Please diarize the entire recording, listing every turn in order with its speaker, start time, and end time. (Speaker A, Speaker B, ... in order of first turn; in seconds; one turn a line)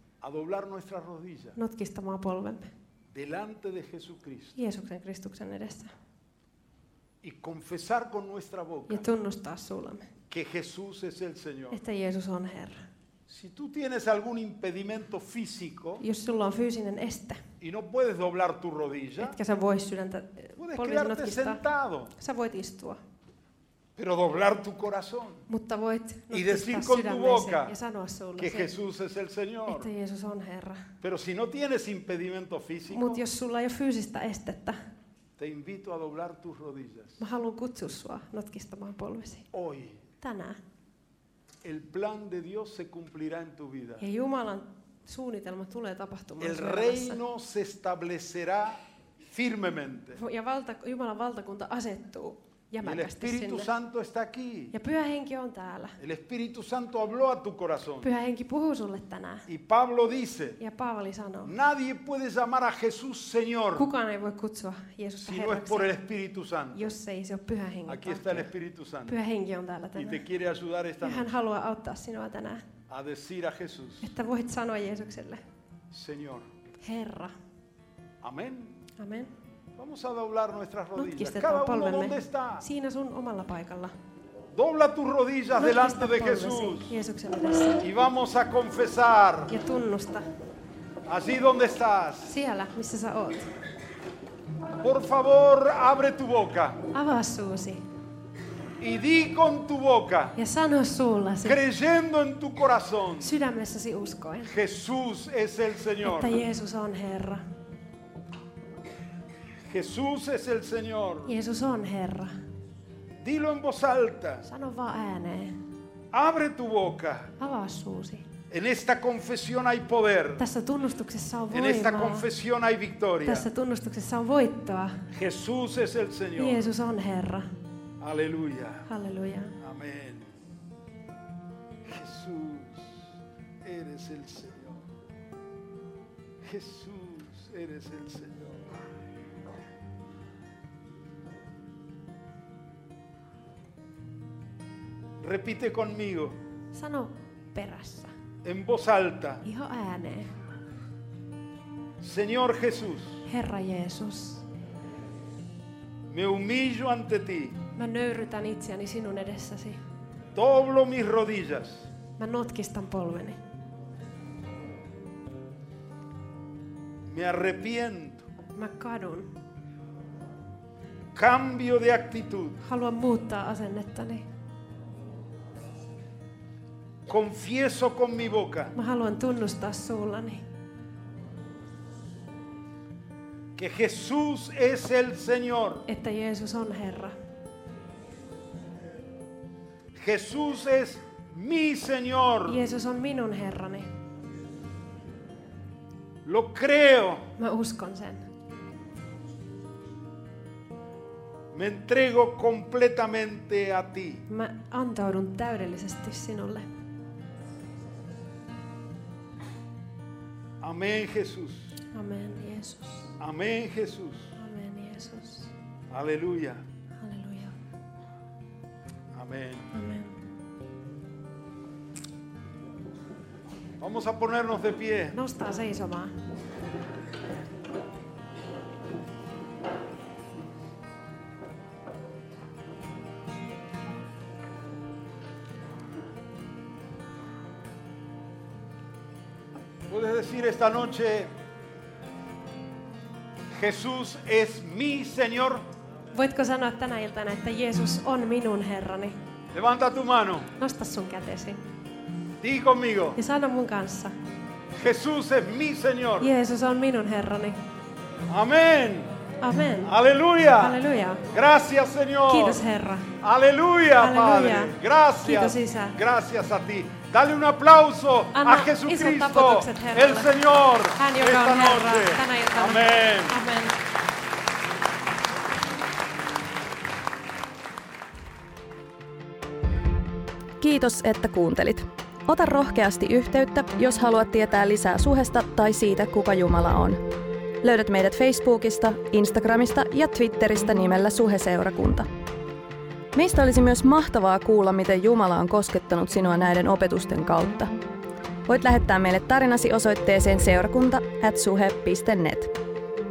Speaker A: 0.2-1.6
Speaker B: 1.6-2.7
Speaker A: 3.1-4.6
Speaker B: 4.5-5.9
Speaker A: 7.2-9.1
Speaker B: 8.9-10.1
Speaker A: 10.3-11.8
Speaker B: 11.7-12.8
Speaker A: 13.3-16.0
Speaker B: 16.0-17.4
Speaker A: 17.6-19.4
Speaker B: 19.2-21.6
Speaker A: 20.6-22.1
Speaker B: 22.1-23.0
Speaker A: 23.9-25.4
Speaker B: 25.5-28.7
Speaker A: 26.3-27.7
Speaker A: 28.4-29.9
Speaker B: 29.7-30.9
Speaker A: 31.0-33.2
Speaker B: 32.9-34.8
Speaker A: 35.4-37.2
Speaker B: 37.2-39.5
Speaker A: 39.5-40.0
Speaker B: 40.2-40.6
Speaker A: 41.6-44.0
Speaker B: 44.0-47.2
Speaker A: 46.4-50.2
Speaker B: 50.1-53.7
Speaker A: 52.8-54.7
Speaker B: 54.7-56.0
Speaker A: 56.0-58.1
Speaker B: 58.0-59.5
Speaker A: 59.5-60.6
Speaker B: 60.6-61.5
Speaker A: 61.4-63.9
Speaker B: 63.7-65.9
Speaker A: 65.2-67.0
Speaker B: 66.7-68.5
Speaker A: 67.8-69.2
Speaker B: 69.0-70.2
Speaker A: 70.0-71.3
Speaker B: 71.0-72.7
Speaker A: 72.9-74.1
Speaker B: 74.0-75.4
Speaker A: 75.9-76.5
Speaker B: 76.8-77.4
Speaker A: 78.2-78.8
Speaker B: 79.0-79.3
Speaker A: 79.8-82.7
Speaker B: 81.0-84.0
Speaker A: 84.5-87.0
Speaker B: 85.6-87.8
Speaker A: 87.8-89.5
Speaker B: 89.5-90.2
Speaker A: 91.1-92.3
Speaker B: 92.2-93.5
Speaker A: 94.8-96.8
Speaker B: 96.9-97.8
Speaker A: 98.8-100.4
Speaker B: 100.3-101.6
Speaker A: 101.4-103.3
Speaker B: 103.2-104.5
Speaker A: 104.4-106.4
Speaker B: 106.0-107.4
Speaker A: 109.7-111.3
Speaker B: 111.2-112.3
Speaker A: 113.2-114.5
Speaker B: 114.4-115.6
Speaker A: 116.1-117.3
Speaker B: 117.4-118.2
Speaker A: 118.5-120.5
Speaker B: 120.4-122.3
Speaker A: 121.5-123.5
Speaker B: 123.2-125.0
Speaker A: 125.1-126.7
Speaker B: 126.3-127.5
Speaker A: 128.0-128.9
Speaker B: 128.9-129.6
Speaker A: 129.6-130.3
Speaker A: 131.8-134.9
Speaker A: 136.4-138.7
Speaker A: 145.2-146.4
Speaker B: 146.7-148.1
Speaker A: 148.4-149.4
Speaker B: 149.4-150.3
Speaker A: 152.0-153.2
Speaker B: 153.3-154.4
Speaker A: 156.1-157.6
Speaker B: 157.7-159.8
Speaker A: 160.3-161.9
Speaker B: 162.2-163.4
Speaker A: 167.1-168.3
Speaker B: 168.5-169.3
Speaker A: 171.1-172.6
Speaker B: 172.6-174.2
Speaker A: 177.1-178.7
Speaker B: 178.7-180.4
Speaker A: 183.5-185.8
Speaker B: 185.8-187.2
Speaker A: 189.9-192.6
Speaker B: 192.4-193.9
Speaker A: 196.2-197.3
Speaker B: 197.4-198.2
Speaker A: 201.5-204.2
Speaker B: 204.3-206.7
Speaker A: 210.6-211.8
Speaker B: 211.9-213.2
Speaker A: 213.2-214.3
Speaker B: 214.3-215.5
Speaker A: 215.9-216.7
Speaker B: 216.9-217.6
Speaker A: 219.1-219.7
Speaker B: 219.7-220.2
Speaker A: 223.8-225.2
Speaker B: 225.1-226.1
Speaker A: 239.9-241.3
Speaker A: 243.5-245.6
Speaker B: 246.1-249.2
Speaker A: 249.5-250.5
Speaker B: 250.6-251.6
Speaker A: 252.4-253.2
Speaker B: 253.2-254.1
Speaker A: 254.7-256.3
Speaker B: 256.2-257.6
Speaker A: 258.3-259.1
Speaker B: 259.4-259.9
Speaker A: 259.8-262.6
Speaker B: 260.6-261.2
Speaker B: 262.3-263.1
Speaker A: 263.2-273.4
Speaker B: 264.0-266.0
Speaker B: 268.3-270.3
Speaker B: 271.0-273.8
Speaker C: 280.6-287.0
Speaker C: 287.6-292.1
Speaker C: 293.1-297.7
Speaker C: 298.5-302.5